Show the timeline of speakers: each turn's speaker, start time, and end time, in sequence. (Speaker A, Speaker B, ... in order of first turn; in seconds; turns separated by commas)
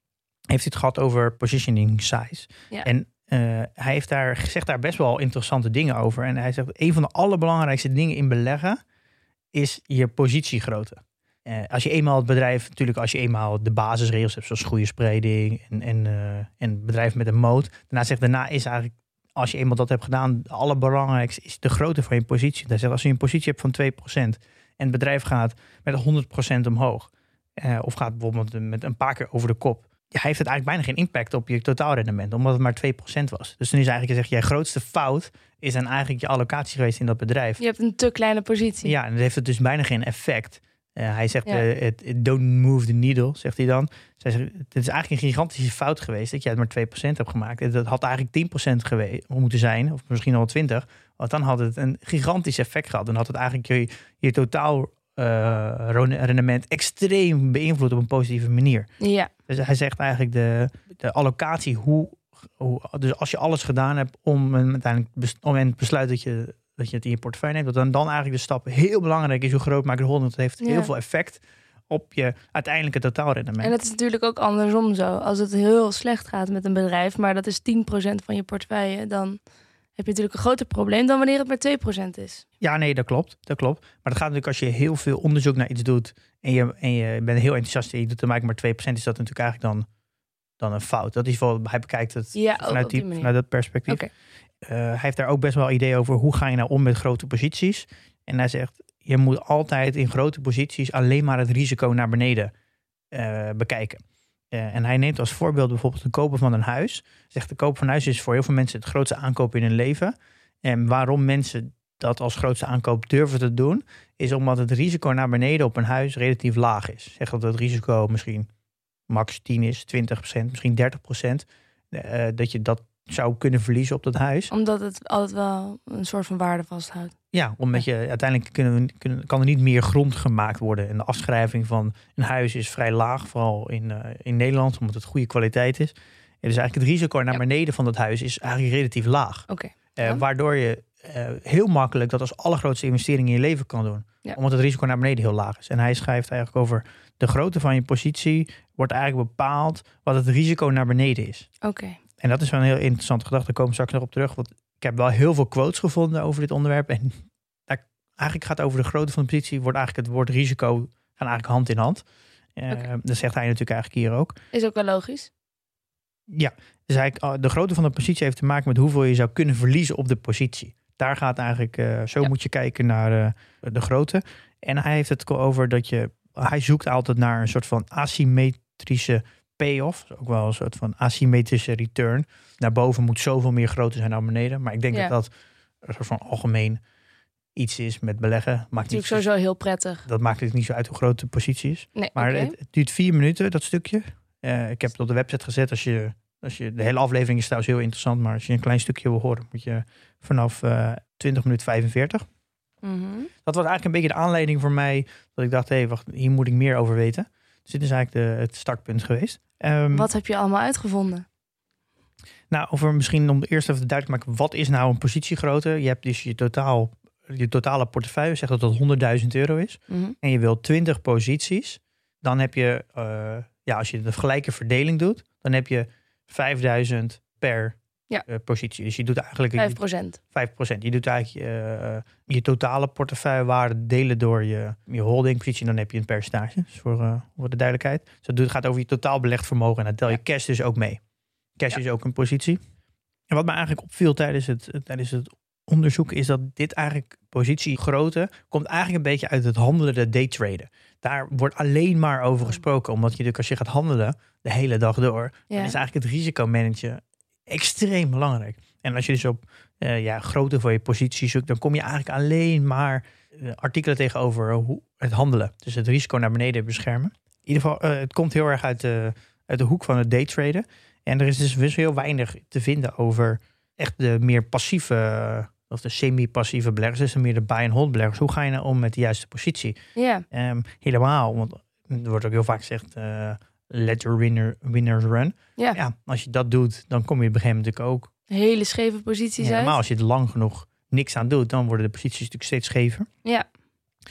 Speaker A: 0.5-8.8, Speaker A: 9.5-37.6, Speaker B: 37.6-38.9, Speaker A: 38.8-58.9, Speaker B: 59.0-59.3, Speaker A: 59.5-73.7, Speaker B: 70.6-70.9, Speaker B: 73.6-79.4, Speaker B: 79.9-82.4, Speaker A: 82.6-89.9, Speaker A: 90.6-94.0, Speaker B: 92.3-93.3, Speaker A: 94.6-102.5, Speaker A: 103.1-118.5, Speaker A: 119.1-124.5, Speaker B: 124.5-127.2, Speaker A: 127.3-151.5, Speaker B: 139.5-140.2, Speaker B: 151.6-152.0, Speaker A: 152.2-162.1, Speaker A: 162.6-164.3, Speaker B: 164.5-165.3, Speaker A: 166.3-185.3, Speaker A: 185.8-186.8, Speaker A: 187.6-189.3, Speaker B: 188.8-190.0, Speaker A: 190.1-202.3, Speaker B: 191.9-192.6, Speaker B: 202.8-203.3, Speaker A: 203.4-210.1, Speaker B: 209.9-211.2, Speaker A: 212.5-227.8, Speaker B: 219.9-220.2, Speaker A: 228.3-229.8, Speaker B: 229.6-230.2, Speaker A: 230.3-241.0, Speaker A: 241.6-242.6, Speaker A: 243.3-279.8, Speaker B: 255.5-255.8, Speaker B: 279.9-280.2, Speaker A: 280.3-288.1, Speaker B: 288.3-289.8, Speaker A: 289.4-293.1